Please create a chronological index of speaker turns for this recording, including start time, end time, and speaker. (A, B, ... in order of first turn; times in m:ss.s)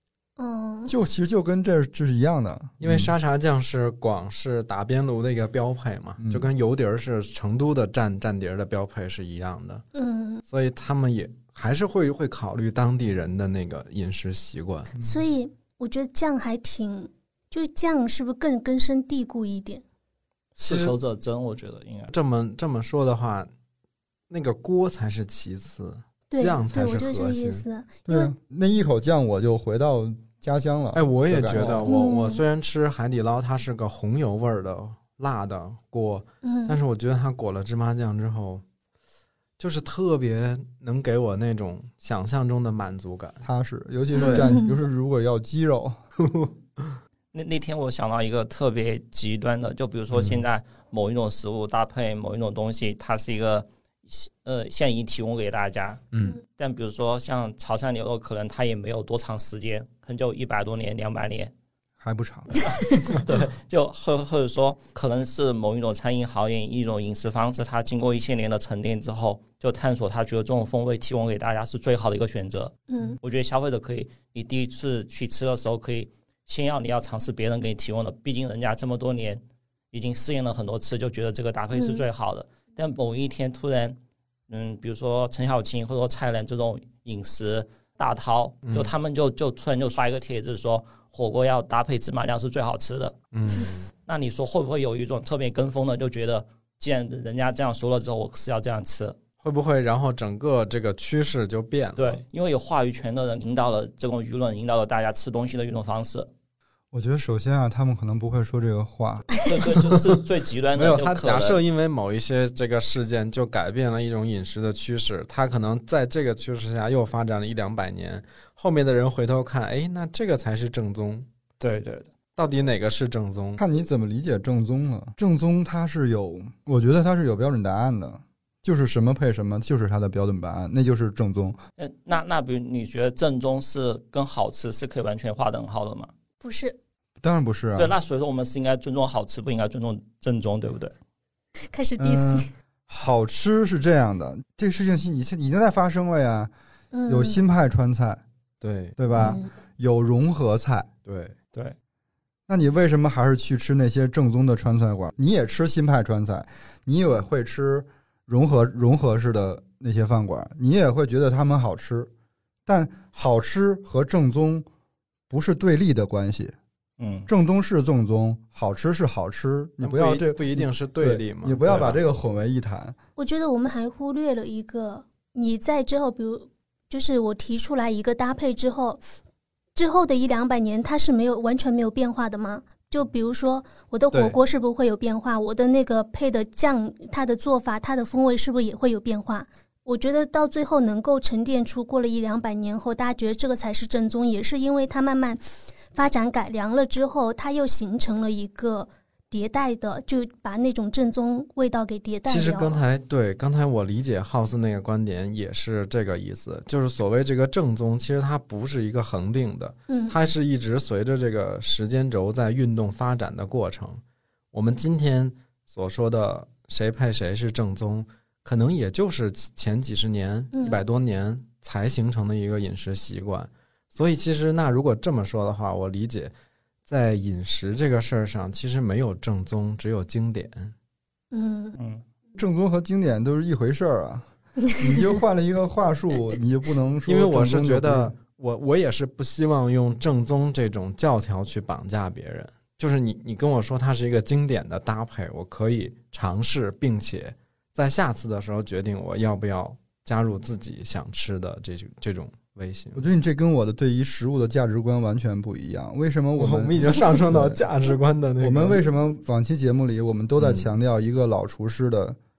0:00.4-0:00.9 A
0:00.9-0:03.1 B
0:02.8-0:09.8 C
0:06.2-0:06.5 B
0:09.9-0:10.4 A
0:10.5-0:14.9 C
0:15.0-0:19.8 A
0:20.5-0:22.1 D
0:20.6-0:20.9 C
0:22.1-0:23.5 C
0:24.3-0:27.6 C
0:26.3-0:28.3 A
0:28.1-0:31.8 B
0:30.9-0:38.6 C
0:31.5-0:31.9 D
0:31.8-0:32.4 A
0:36.4-0:36.8 A
0:39.6-0:43.4 C
0:43.4-0:46.0 B
0:44.2-0:44.5 C
0:44.2-0:44.7 A
0:46.2-0:46.8 C
0:47.3-1:01.5 D
0:50.1-0:50.4 C
0:56.1-0:56.4 C
1:02.0-1:02.5 B
1:02.6-1:03.0 A
1:03.0-1:24.0 D
1:12.9-1:13.2 A
1:21.7-1:22.0 A
1:24.5-1:33.2 D
1:28.6-1:28.9 C
1:33.3-1:33.9 C
1:34.0-1:39.2 D
1:39.4-1:42.2 C
1:42.0-1:46.3 D
1:46.9-1:49.3 B
1:49.4-1:51.6 D
1:49.7-1:50.0 C
1:50.7-2:01.3 C
2:01.6-2:02.1 D
2:02.4-2:03.6 C
2:03.6-2:11.6 B
2:11.8-2:16.1 D
2:16.4-2:16.8 A
2:17.2-2:17.9 B
2:17.8-2:20.9 D
2:21.7-2:22.5 A
2:22.0-2:26.5 B
2:26.9-2:27.4 A
2:27.1-2:28.2 B
2:28.6-2:29.0 C
2:29.0-2:30.9 B
2:29.1-2:29.5 A
2:31.0-2:31.4 C
2:32.5-2:42.1 B
2:42.6-2:44.6 B
2:45.3-2:46.6 B
2:47.0-2:47.3 D
2:47.3-2:53.0 B
2:49.8-2:52.0 C
2:53.2-2:59.0 A
2:59.7-3:15.4 A
3:04.1-3:04.4 C
3:15.9-3:22.8 A
3:22.3-3:34.0 C
3:29.9-3:30.2 A
3:34.5-3:46.3 C
3:40.5-3:40.8 A
3:46.9-3:50.7 C
3:51.3-3:51.8 A
3:51.8-3:52.0 D
3:52.4-3:58.1 B
3:57.1-4:13.0 C
4:12.9-4:17.6 B
4:16.4-4:18.8 C
4:18.4-4:22.2 B
4:20.4-4:20.7 C